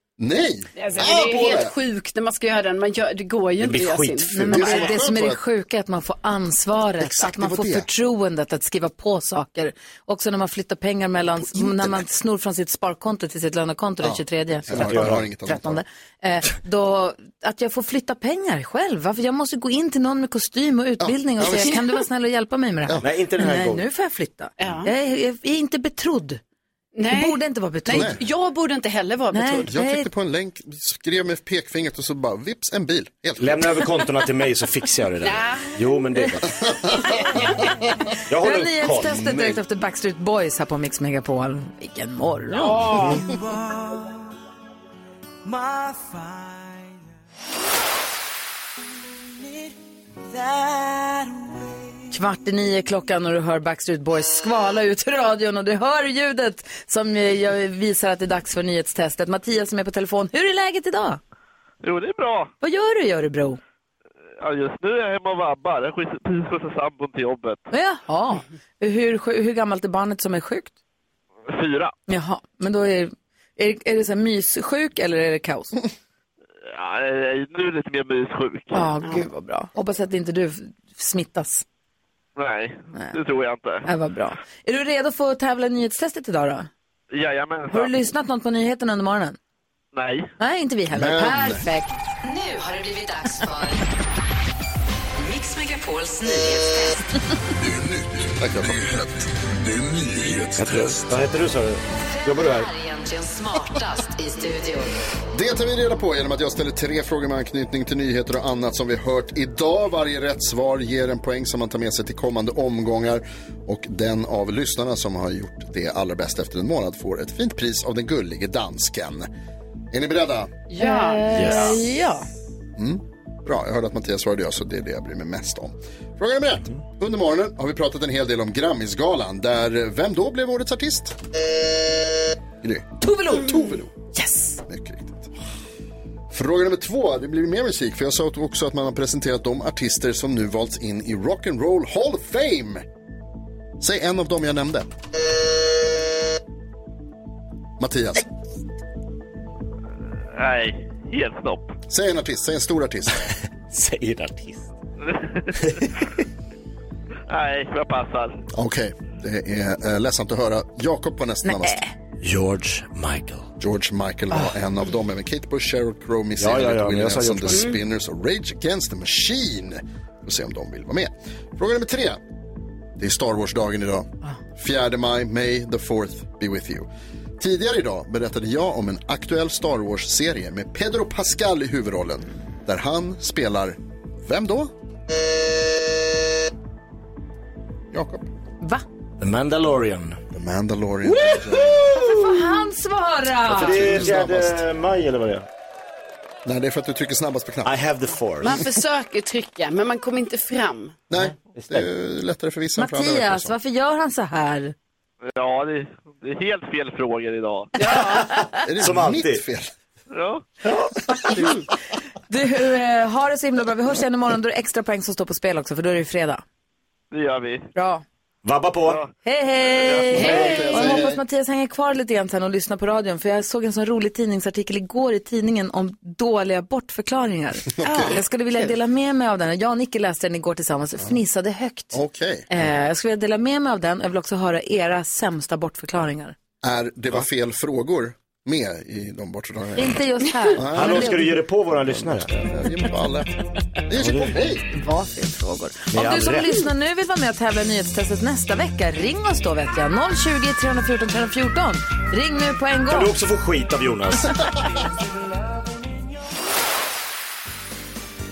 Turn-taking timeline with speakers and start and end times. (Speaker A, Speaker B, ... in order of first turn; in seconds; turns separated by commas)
Speaker A: 0.2-1.7, Speaker B: 0.8-4.9, Speaker C: 3.6-4.8, Speaker D: 4.4-26.4, Speaker A: 4.5-5.4, Speaker A: 7.0-7.9, Speaker A: 11.6-12.0, Speaker A: 14.0-15.8, Speaker C: 14.7-15.3, Speaker A: 21.0-21.8, Speaker C: 23.0-23.9, Speaker B: 24.6-24.9, Speaker B: 26.9-29.7, Speaker D: 27.1-28.1, Speaker A: 27.9-28.2, Speaker D: 29.3-30.1, Speaker A: 29.7-33.7, Speaker C: 33.4-36.6, Speaker B: 35.2-35.8, Speaker C: 38.3-39.4, Speaker D: 38.4-43.0, Speaker A: 39.1-39.5, Speaker B: 42.6-43.3, Speaker E: 43.4-44.2, Speaker E: 45.5-46.7, Speaker E: 50.3-51.7, Speaker D: 52.1-61.2, Speaker F: 61.8-62.5, Speaker D: 62.6-63.6, Speaker F: 64.4-67.6, Speaker D: 67.7-70.7, Speaker F: 71.5-71.9, Speaker D: 72.1-75.8, Speaker F: 76.7-78.8, Speaker D: 78.7-81.7, Speaker F: 82.4-83.9, Speaker D: 83.8-86.7, Speaker F: 87.1-87.9, Speaker D: 87.7-89.4, Speaker F: 89.9-90.3, Speaker D: 90.4-92.0, Speaker A: 90.9-91.7, Speaker E: 92.2-93.8, Speaker E: 95.2-97.0, Speaker A: 98.3-99.1, Speaker C: 100.5-102.7, Speaker E: 102.2-104.9, Speaker A: 105.3-119.3, Speaker A: 119.9-120.5, Speaker B: 120.7-121.8, Speaker D: 120.8-122.3, Speaker C: 121.3-121.8, Speaker A: 122.8-131.2, Speaker A: 132.6-133.9, Speaker D: 133.0-134.6, Speaker A: 134.7-135.3, Speaker A: 136.3-142.8, Speaker A: 143.8-144.9, Speaker A: 147.8-148.3, Speaker F: 150.3-151.8, Speaker A: 151.9-153.3, Speaker C: 153.7-154.7, Speaker F: 155.1-155.6, Speaker C: 155.6-156.0, Speaker F: 157.3-158.4, Speaker A: 158.5-161.8, Speaker D: 161.4-161.9, Speaker C: 162.2-163.5, Speaker A: 163.6-172.2, Speaker C: 166.4-167.8, Speaker A: 173.0-176.9, Speaker A: 177.4-184.7, Speaker A: 187.9-188.3, Speaker C: 189.2-190.2, Speaker A: 190.3-191.8, Speaker C: 191.1-192.6, Speaker D: 192.0-194.2, Speaker C: 193.5-195.5, Speaker A: 193.6-194.6, Speaker A: 196.4-197.8, Speaker C: 197.6-198.7, Speaker B: 198.4-201.0, Speaker A: 201.1-203.5, Speaker C: 201.2-201.9, Speaker D: 202.8-204.7, Speaker F: 205.4-207.7, Speaker B: 207.8-208.3, Speaker C: 207.8-209.4, Speaker A: 208.6-209.7, Speaker F: 210.1-210.5, Speaker D: 211.1-211.5, Speaker B: 211.4-211.6, Speaker D: 212.3-216.4, Speaker F: 217.1-217.7, Speaker D: 217.8-218.0, Speaker C: 218.4-219.0, Speaker F: 218.9-219.1, Speaker D: 219.2-232.0, Speaker F: 219.7-220.1, Speaker B: 220.1-220.7, Speaker A: 220.1-221.2, Speaker C: 220.2-220.9, Speaker A: 227.7-228.2, Speaker A: 231.9-232.5, Speaker D: 232.5-236.3, Speaker A: 236.6-240.0, Speaker D: 239.8-241.4, Speaker A: 240.6-244.7, Speaker C: 240.7-242.3, Speaker C: 244.0-244.3, Speaker D: 244.7-253.2, Speaker C: 245.9-246.6, Speaker C: 252.9-254.4